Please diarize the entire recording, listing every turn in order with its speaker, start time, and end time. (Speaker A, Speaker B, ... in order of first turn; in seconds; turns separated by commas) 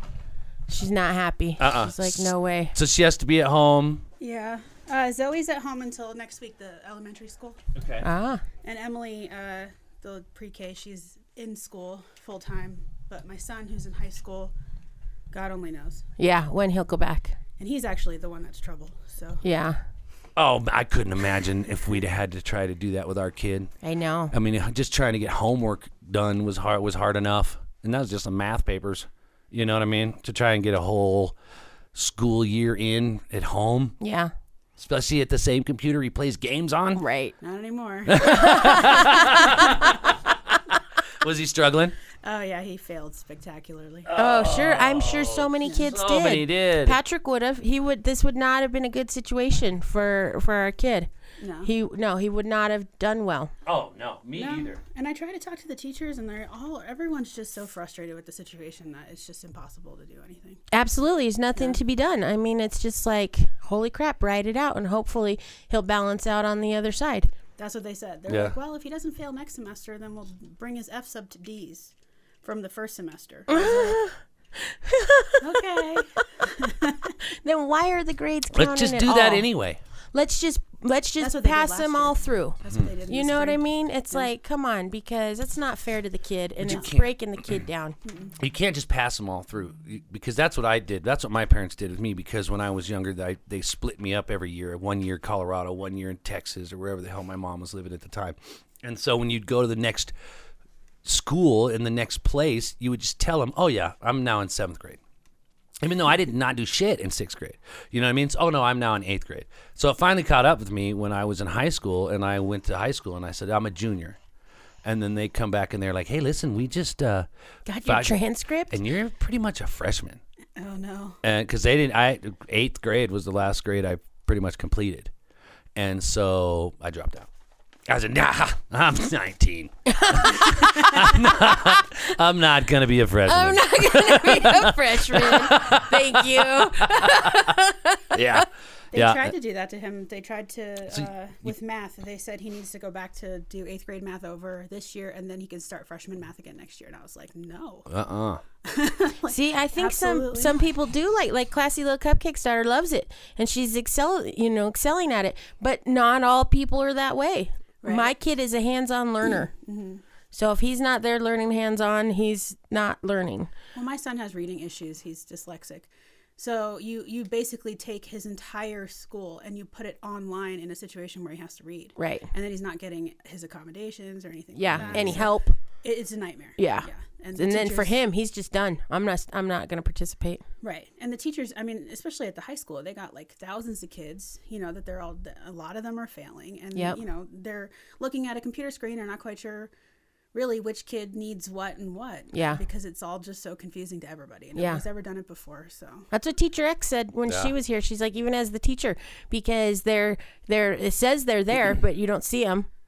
Speaker A: 0.7-2.7, Speaker B: 1.6-4.0, Speaker C: 4.2-7.6, Speaker B: 7.8-8.1, Speaker A: 8.0-8.4, Speaker C: 8.6-14.5, Speaker C: 15.3-16.0, Speaker A: 16.2-17.4, Speaker C: 17.6-19.4, Speaker A: 19.4-19.8, Speaker B: 20.4-23.7, Speaker A: 23.8-24.3, Speaker B: 24.3-31.4, Speaker B: 31.9-34.0, Speaker A: 34.0-34.3, Speaker B: 34.8-37.0, Speaker A: 37.0-37.4, Speaker C: 37.4-39.1, Speaker B: 38.1-40.6, Speaker A: 38.3-39.4, Speaker B: 41.2-42.0, Speaker C: 42.2-44.1, Speaker B: 44.1-47.0, Speaker A: 44.2-51.1, Speaker C: 45.6-45.9, Speaker C: 51.4-51.7, Speaker A: 51.6-53.5, Speaker B: 53.6-54.8, Speaker C: 54.4-60.6, Speaker A: 60.7-67.3, Speaker C: 61.5-61.8, Speaker C: 67.6-74.0, Speaker B: 68.3-68.6, Speaker A: 73.5-76.2, Speaker C: 75.4-77.2, Speaker A: 77.4-79.5, Speaker B: 78.5-79.8, Speaker A: 80.1-88.0, Speaker C: 81.2-84.3, Speaker B: 86.7-87.6, Speaker C: 86.7-86.9, Speaker C: 88.0-88.3, Speaker B: 88.4-100.1, Speaker B: 101.0-105.0, Speaker B: 105.8-114.2, Speaker B: 114.8-117.3, Speaker A: 117.7-118.8, Speaker B: 117.8-120.2, Speaker C: 120.6-121.2, Speaker B: 121.2-125.1, Speaker B: 125.8-127.3, Speaker B: 127.9-137.6, Speaker A: 129.9-130.7, Speaker A: 133.3-138.4, Speaker B: 138.1-139.3, Speaker C: 138.9-147.9, Speaker B: 140.9-141.5, Speaker B: 147.9-148.4, Speaker C: 148.6-150.7, Speaker A: 149.3-159.5, Speaker C: 157.8-158.1, Speaker C: 159.2-160.0, Speaker A: 160.3-163.5, Speaker C: 163.8-178.0, Speaker A: 172.0-172.3, Speaker A: 174.6-175.5, Speaker B: 174.7-175.2, Speaker A: 176.6-180.4, Speaker C: 180.6-189.7, Speaker A: 186.7-187.0, Speaker C: 190.3-196.1, Speaker A: 192.3-192.6, Speaker A: 194.6-194.8, Speaker A: 196.1-202.7, Speaker B: 197.3-197.5